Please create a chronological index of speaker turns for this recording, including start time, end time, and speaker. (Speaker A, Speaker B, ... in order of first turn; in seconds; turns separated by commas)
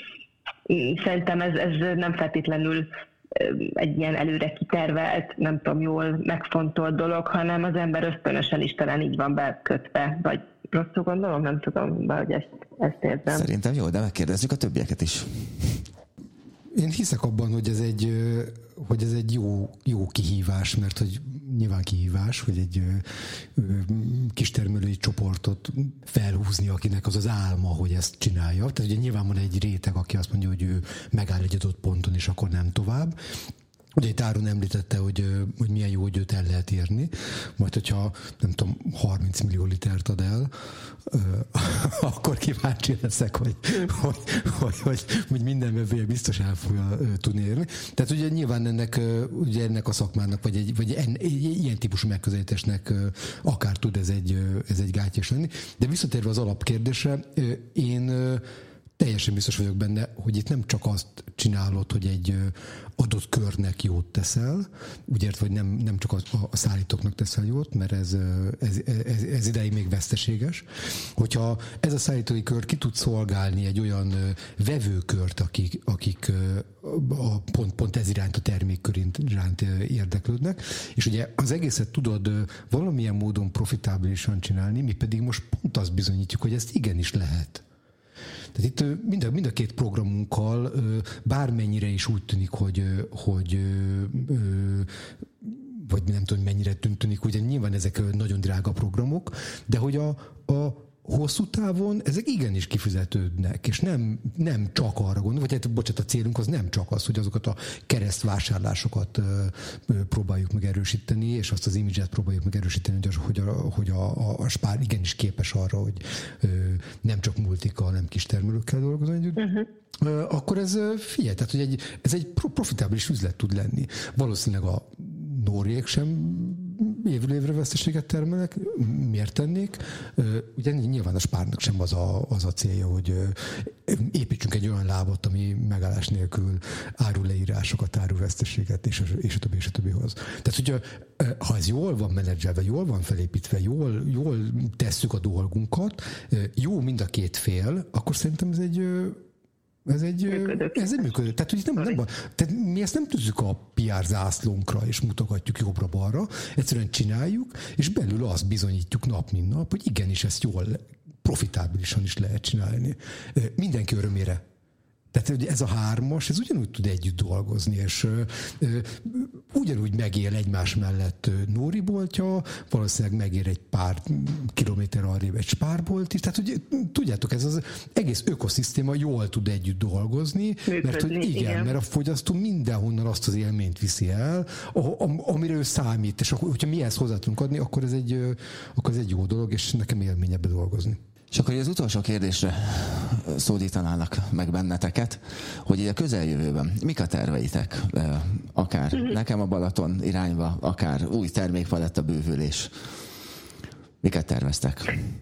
Speaker A: 0.7-13.5, Speaker B: 13.3-15.8, Speaker C: 16.7-33.1, Speaker C: 34.0-40.5, Speaker C: 41.0-58.4, Speaker C: 59.0-87.6, Speaker C: 88.5-149.2, Speaker A: 119.4-119.7, Speaker C: 149.8-164.4, Speaker A: 150.3-150.9, Speaker C: 165.1-191.0, Speaker A: 180.7-181.7, Speaker B: 191.3-202.7, Speaker B: 204.0-204.9